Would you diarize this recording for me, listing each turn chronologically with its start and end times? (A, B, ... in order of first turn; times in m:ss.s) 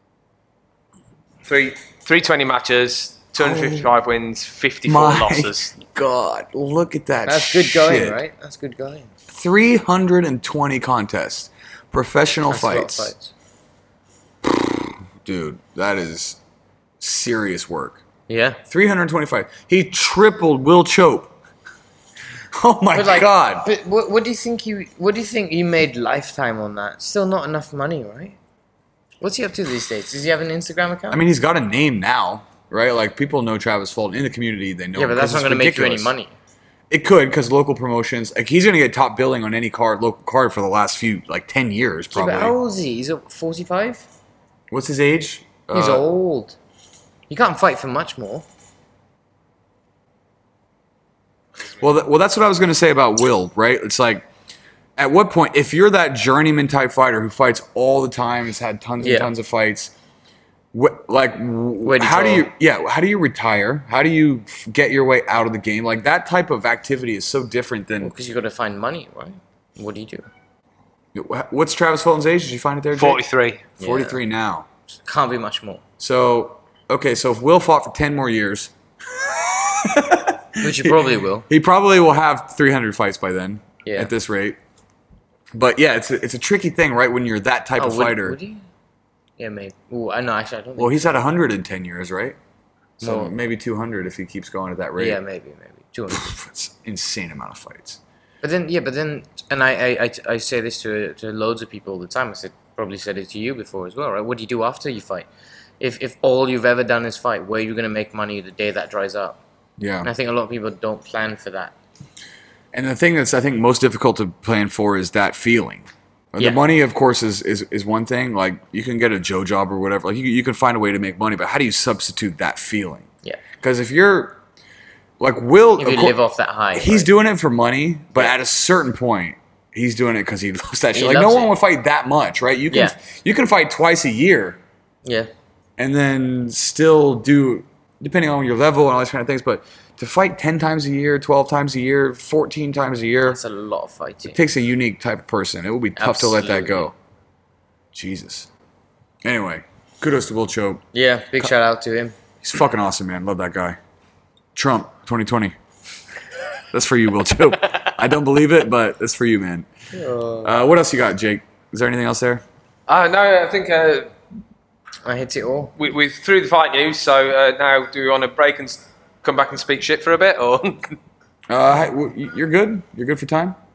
0:01.4-0:05.7 A
0:03.4-0:03.9 B
0:04.9-0:08.2 B
0:07.3-0:09.1 C
0:09.3-0:13.1 B
0:12.5-0:13.3 C
0:14.4-0:16.4 B
0:17.0-0:18.0 B
0:18.3-0:18.6 C
0:18.7-0:21.3 B
0:22.5-0:23.7 B
0:22.9-0:28.4 C
0:29.2-0:31.2 C
0:31.1-0:36.1 B
0:35.0-0:36.3 C
0:36.9-0:42.6 B
0:42.1-0:44.1 C
0:44.7-0:46.0 B
0:45.7-0:46.6 C
0:47.3-0:48.4 C
0:51.8-0:54.3 B
0:55.0-0:59.9 B
0:59.0-0:59.3 C
1:00.7-1:08.1 B
1:01.8-1:02.5 C
1:08.0-1:10.3 C
1:11.1-1:13.2 B
1:13.0-1:13.6 A
1:13.8-1:14.2 C
1:13.8-1:14.7 B
1:15.0-1:15.8 C
1:16.0-1:24.6 B
1:20.6-1:21.5 C
1:23.8-1:24.1 C
1:25.5-1:28.4 B
1:27.8-1:28.6 C
1:29.4-1:31.1 C
1:30.8-1:32.4 B
1:33.0-1:33.3 C
1:33.0-1:35.2 B
1:35.0-1:36.4 C
1:36.1-1:38.0 B
1:38.4-1:45.3 C
1:45.8-1:49.4 C
1:49.8-1:50.1 B
1:50.0-1:51.7 C
1:52.7-2:03.1 B
2:03.6-2:04.4 B
2:05.2-2:06.2 B
2:05.8-2:07.1 C
2:06.7-2:14.6 B
2:10.9-2:11.5 C
2:12.7-2:13.0 C
2:15.0-2:15.3 C
2:15.8-2:23.4 B
2:23.3-2:24.4 C
2:24.3-2:26.9 B
2:26.0-2:26.9 C
2:27.9-2:28.5 B
2:29.2-2:30.8 B
2:30.9-2:32.2 C
2:32.4-2:33.8 B
2:34.6-2:35.6 B
2:36.7-2:39.7 B
2:39.9-2:40.5 C
2:40.4-2:42.4 B
2:42.9-2:44.1 A
2:45.0-2:45.7 C
2:45.8-2:51.0 A
2:51.5-2:53.6 B